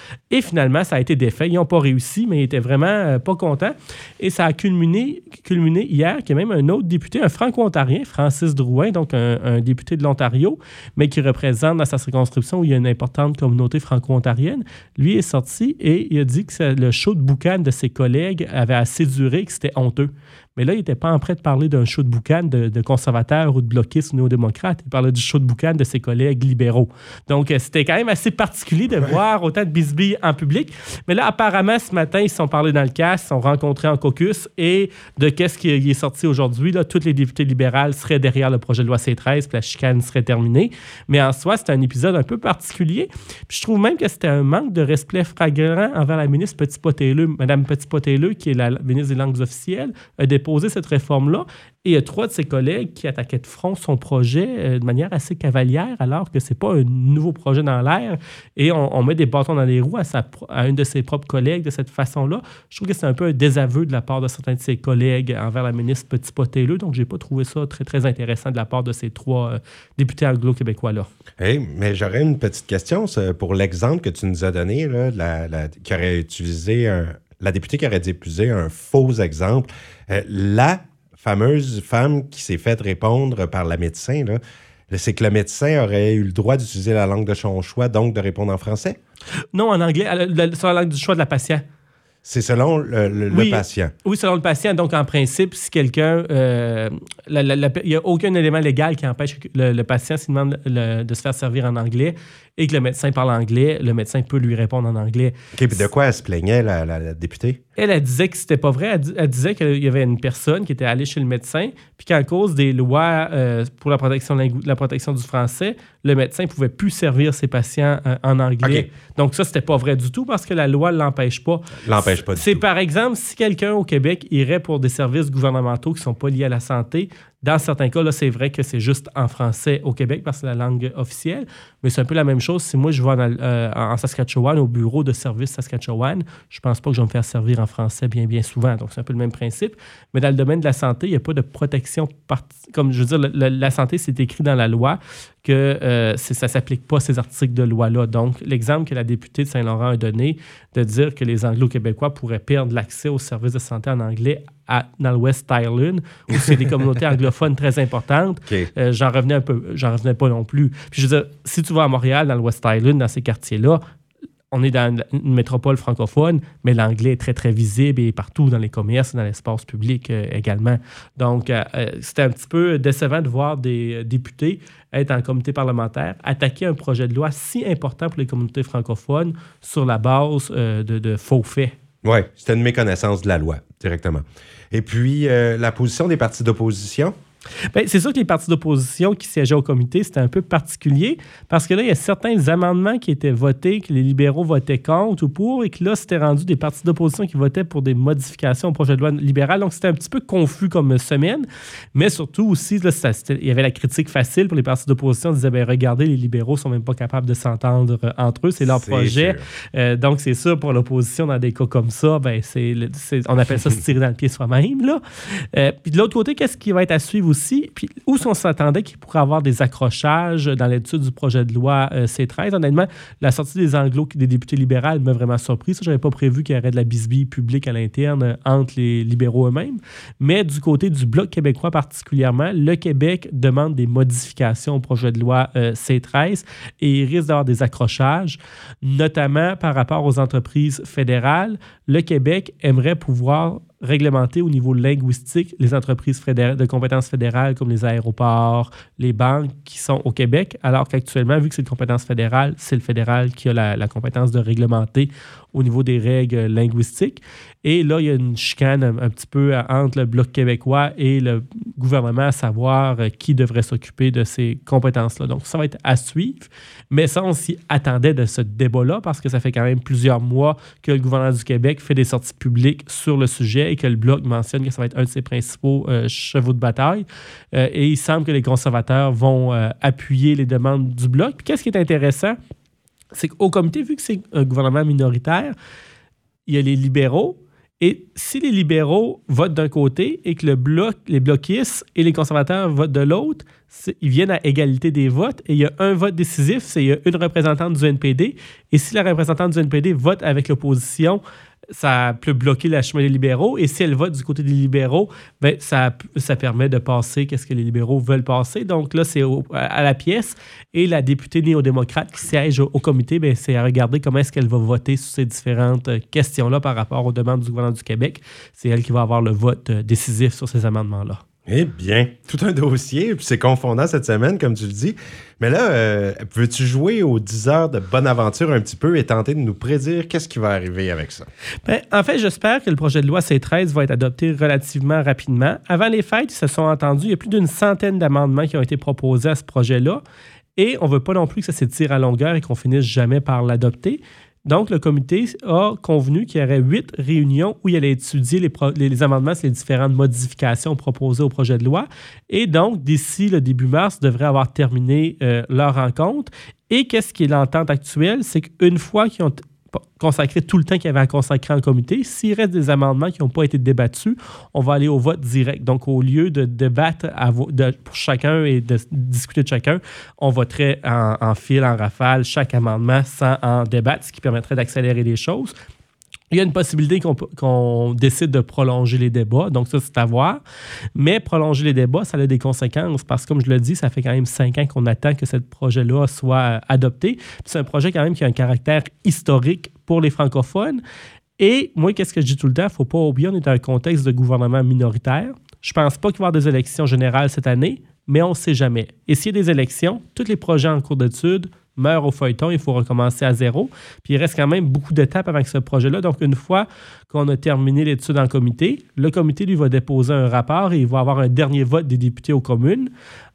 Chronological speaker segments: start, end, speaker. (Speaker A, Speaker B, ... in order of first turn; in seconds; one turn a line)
Speaker A: 0.3-71.1
Speaker B: 71.4-89.0
Speaker A: 89.5-91.6
Speaker B: 92.2-93.9
Speaker A: 93.3-105.8
Speaker B: 105.5-107.6
Speaker A: 107.8-163.8
Speaker B: 118.6-118.9
Speaker B: 121.8-122.6
Speaker A: 164.5-181.8
Speaker B: 182.0-187.1
Speaker A: 187.7-282.4
Speaker B: 208.6-209.4
Speaker A: 283.1-285.5
Speaker A: 286.5-301.2
Speaker A: 301.7-321.2
Speaker B: 321.5-331.3
Speaker A: 331.6-340.0
Speaker A: 340.6-375.5
Speaker A: 376.3-380.4
Speaker A: 380.9-390.8
Speaker A: 391.4-412.9